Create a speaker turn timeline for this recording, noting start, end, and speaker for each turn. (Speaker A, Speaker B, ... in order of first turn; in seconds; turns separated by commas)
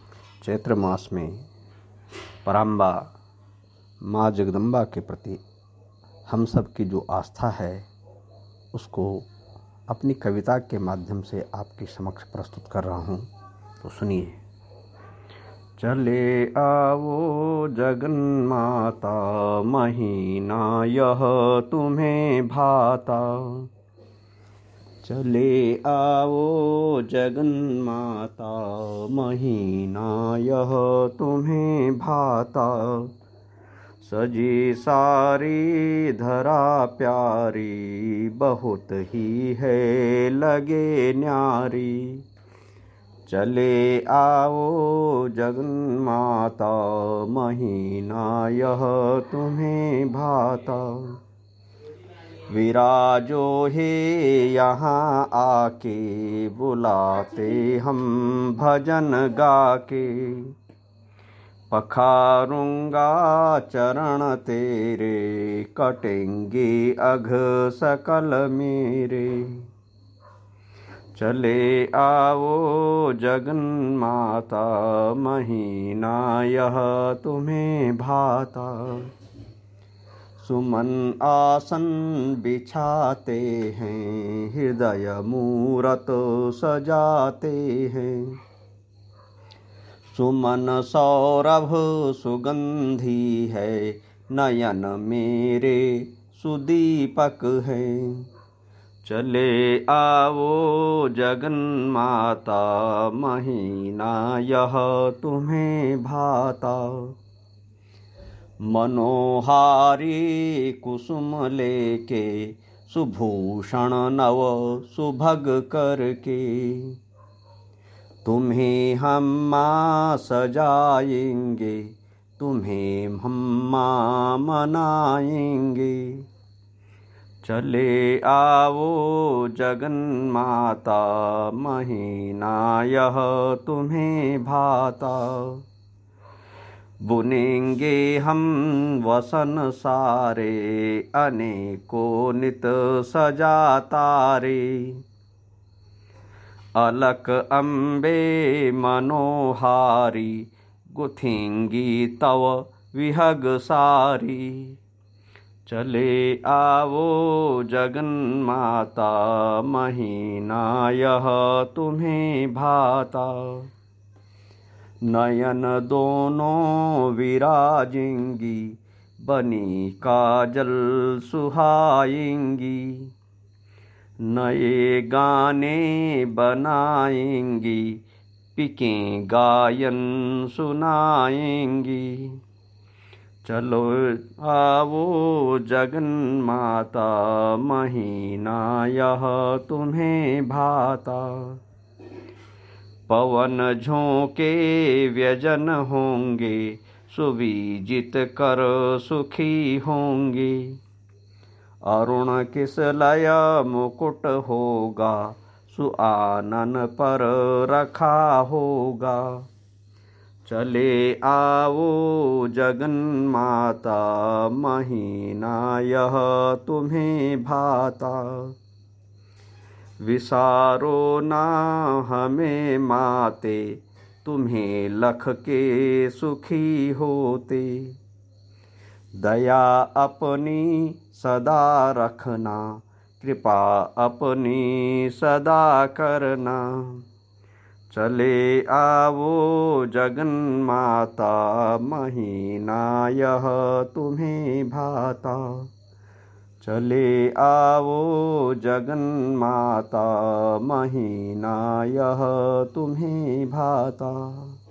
Speaker A: 0.4-1.4, Speaker A: 2.5-3.1, Speaker A: 4.1-5.4, Speaker A: 6.3-7.9, Speaker A: 8.7-9.3, Speaker A: 9.9-13.3, Speaker A: 13.8-14.4, Speaker A: 15.8-23.7, Speaker A: 25.0-33.1, Speaker A: 34.0-42.2, Speaker A: 43.3-51.2, Speaker A: 52.5-60.5, Speaker A: 61.7-69.7, Speaker A: 71.2-79.1, Speaker A: 80.4-88.3, Speaker A: 90.1-98.2, Speaker A: 99.0-107.1, Speaker A: 108.6-117.0, Speaker A: 118.2-126.2, Speaker A: 127.4-135.6, Speaker A: 137.1-145.0, Speaker A: 146.8-154.8, Speaker A: 155.7-163.7, Speaker A: 165.1-173.1, Speaker A: 174.2-178.0, Speaker A: 178.6-182.4, Speaker A: 183.4-191.6, Speaker A: 193.1-200.8, Speaker A: 201.9-209.4, Speaker A: 210.5-218.5, Speaker A: 220.0-227.9, Speaker A: 229.2-237.0, Speaker A: 237.9-245.7, Speaker A: 246.6-254.5